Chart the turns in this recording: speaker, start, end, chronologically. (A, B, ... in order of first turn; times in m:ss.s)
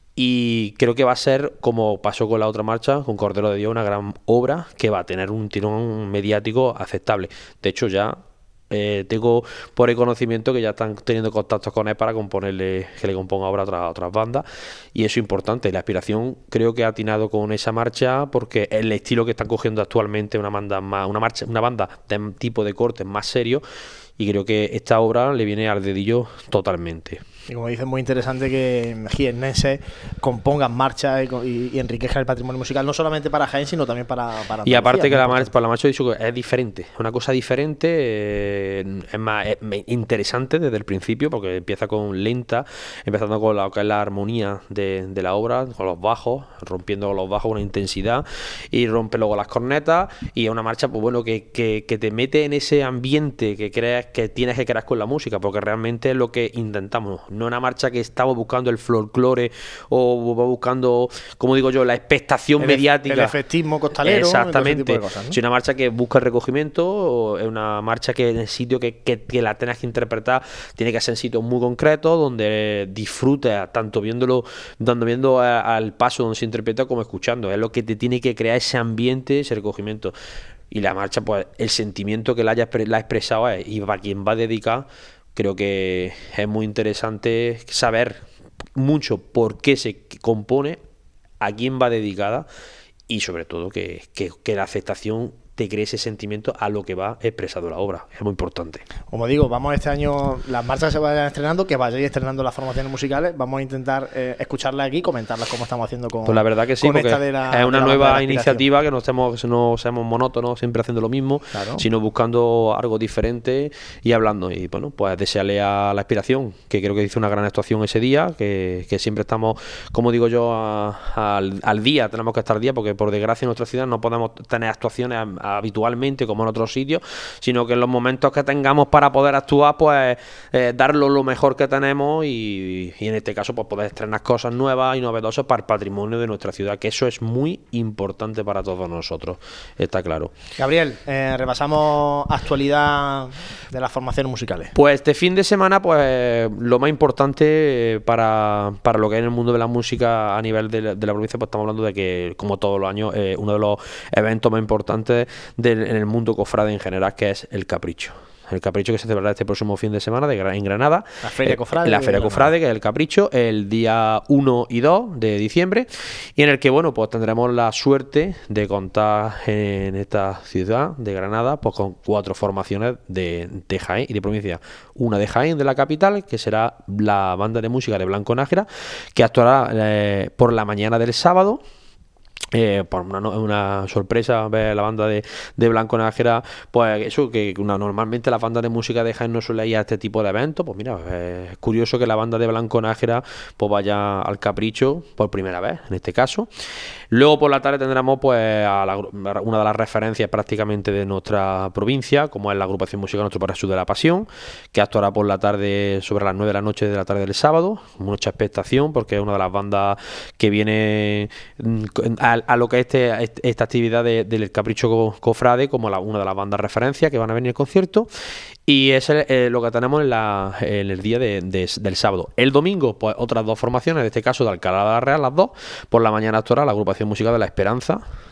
0:00.2-0:23.6 A
0:24.2-0:27.2 A
0:27.5-0:35.5 B
0:34.6-1:03.4 A
1:02.6-1:05.4 B
1:04.0-1:20.1 A
1:20.7-1:28.2 A
1:28.8-1:30.8 A
1:31.4-1:32.5 A
1:33.1-1:38.8 A
1:39.1-1:48.6 B
1:46.2-2:20.3 A
1:51.5-1:51.8 B
2:20.6-2:24.7 B
2:24.7-3:01.6 A
2:41.2-2:42.5 B
3:02.5-3:16.5 A
3:17.1-3:38.1 A
3:38.7-3:48.0 A